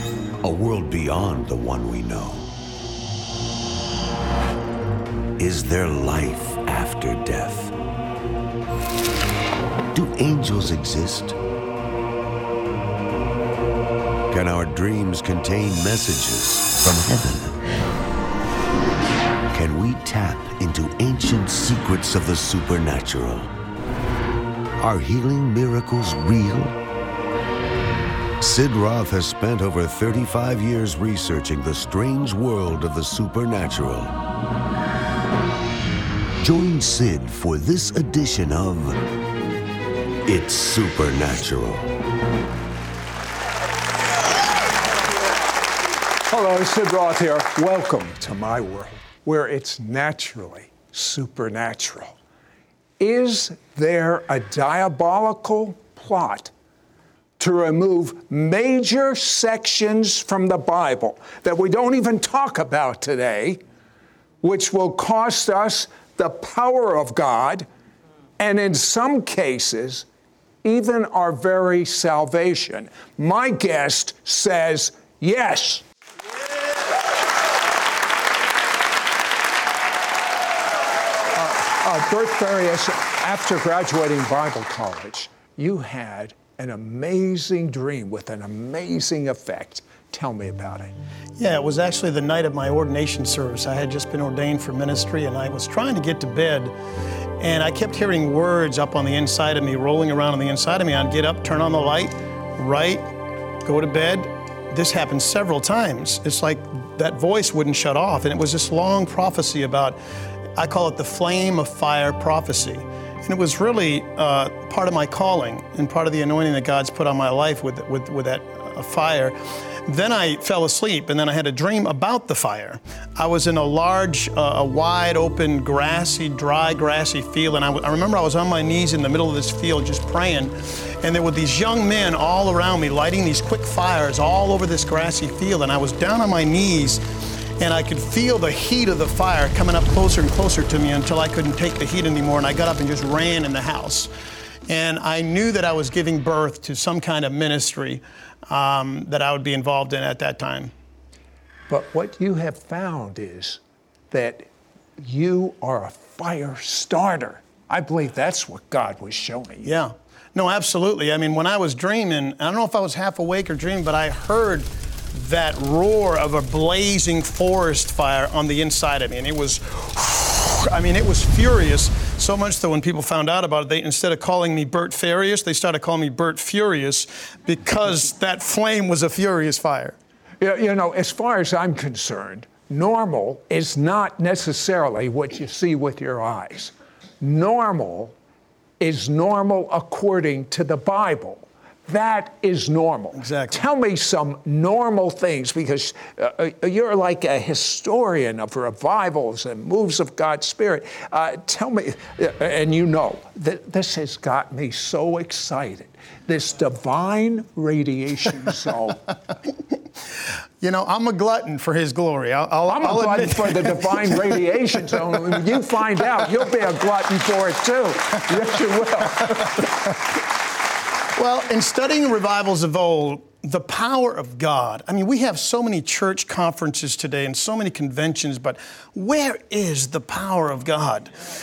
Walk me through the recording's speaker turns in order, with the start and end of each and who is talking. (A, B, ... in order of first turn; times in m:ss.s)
0:00.4-0:02.5 A
0:05.4-0:07.7 A
0:09.9-0:11.4 A
0:14.3-0:17.6 A
0:19.5-0:23.5 A
0:24.8-0:26.8 A
0:28.4-0:34.1 A
0:36.4-0:39.0 A
0:40.3-0:41.9 A
0:46.3-0:52.2 B
0:53.0-0:56.5 B
0:57.4-1:03.6 B
1:04.4-1:07.7 B
1:08.4-1:10.1 B
1:10.6-1:15.8 B
1:21.4-1:30.9 B
1:31.4-1:36.8 C
1:37.4-1:43.0 C
1:43.6-1:50.0 C
1:50.6-2:17.0 C
2:17.6-2:24.1 C
2:24.7-2:30.7 C
2:31.7-2:33.6 B
2:34.1-2:34.5 B
2:35.0-2:39.7 B
2:39.6-3:00.0 C
3:00.4-3:08.1 B
3:08.8-3:29.1 B
3:13.2-3:13.6 C
3:30.6-3:34.4 C
3:32.7-3:39.6 B
3:41.2-3:51.1 C